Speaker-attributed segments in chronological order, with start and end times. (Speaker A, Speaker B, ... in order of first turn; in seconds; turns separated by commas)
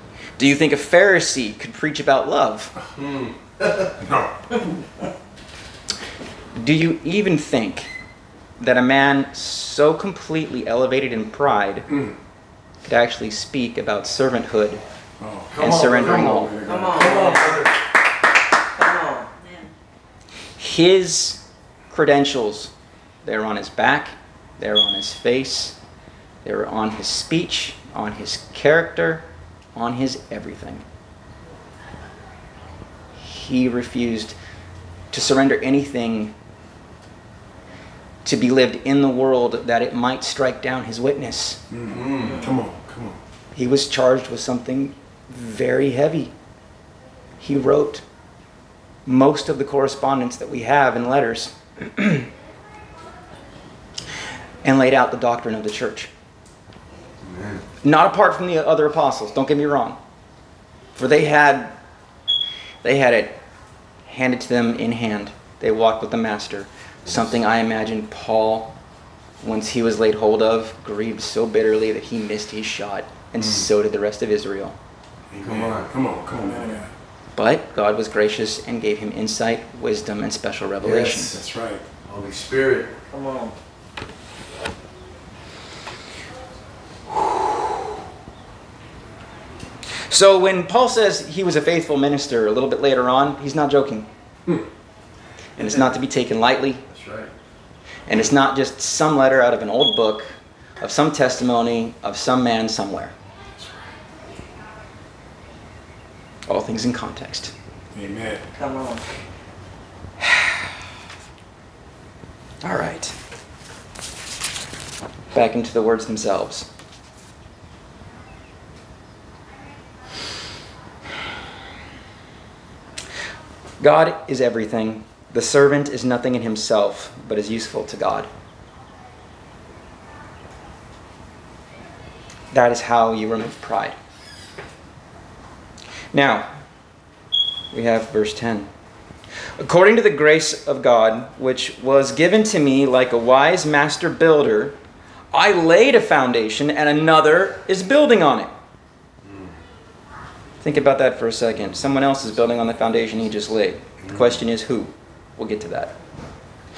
Speaker A: 0.4-2.7, Speaker B: 3.0-3.3, Speaker C: 3.6-3.9, Speaker B: 4.0-4.3, Speaker A: 6.5-7.9, Speaker A: 8.6-11.8, Speaker B: 11.9-12.1, Speaker A: 12.8-14.8, Speaker B: 15.2-17.2, Speaker C: 15.5-17.7, Speaker A: 15.6-16.5, Speaker D: 16.6-17.6, Speaker D: 18.8-19.3, Speaker A: 20.6-22.7, Speaker A: 23.2-25.8, Speaker A: 26.4-30.8, Speaker A: 33.2-34.4, Speaker A: 35.1-36.3, Speaker A: 38.2-41.6, Speaker B: 41.7-43.2, Speaker C: 41.9-42.4, Speaker D: 42.2-42.6, Speaker A: 43.5-46.3, Speaker A: 47.4-48.0, Speaker A: 49.0-52.3, Speaker A: 54.6-56.1, Speaker C: 57.2-57.6, Speaker A: 57.8-60.0, Speaker A: 61.0-61.8, Speaker A: 62.8-63.4, Speaker A: 64.0-68.7, Speaker C: 67.0-67.3, Speaker A: 69.4-74.8, Speaker B: 75.3-76.9, Speaker C: 75.4-75.9, Speaker D: 76.4-76.8, Speaker A: 77.3-81.3, Speaker C: 80.8-81.4, Speaker B: 81.3-81.8, Speaker C: 82.0-82.9, Speaker D: 83.1-83.5, Speaker A: 90.1-94.1, Speaker A: 95.6-96.8, Speaker C: 96.9-97.3, Speaker A: 98.1-103.1, Speaker A: 106.5-107.5, Speaker B: 107.9-108.4, Speaker D: 108.5-109.0, Speaker A: 110.2-110.5, Speaker A: 112.6-113.1, Speaker A: 115.3-116.7, Speaker A: 123.8-128.3, Speaker A: 132.5-133.9, Speaker A: 136.1-136.5, Speaker A: 137.7-138.7, Speaker A: 139.6-144.8, Speaker A: 145.3-148.5, Speaker A: 150.6-155.9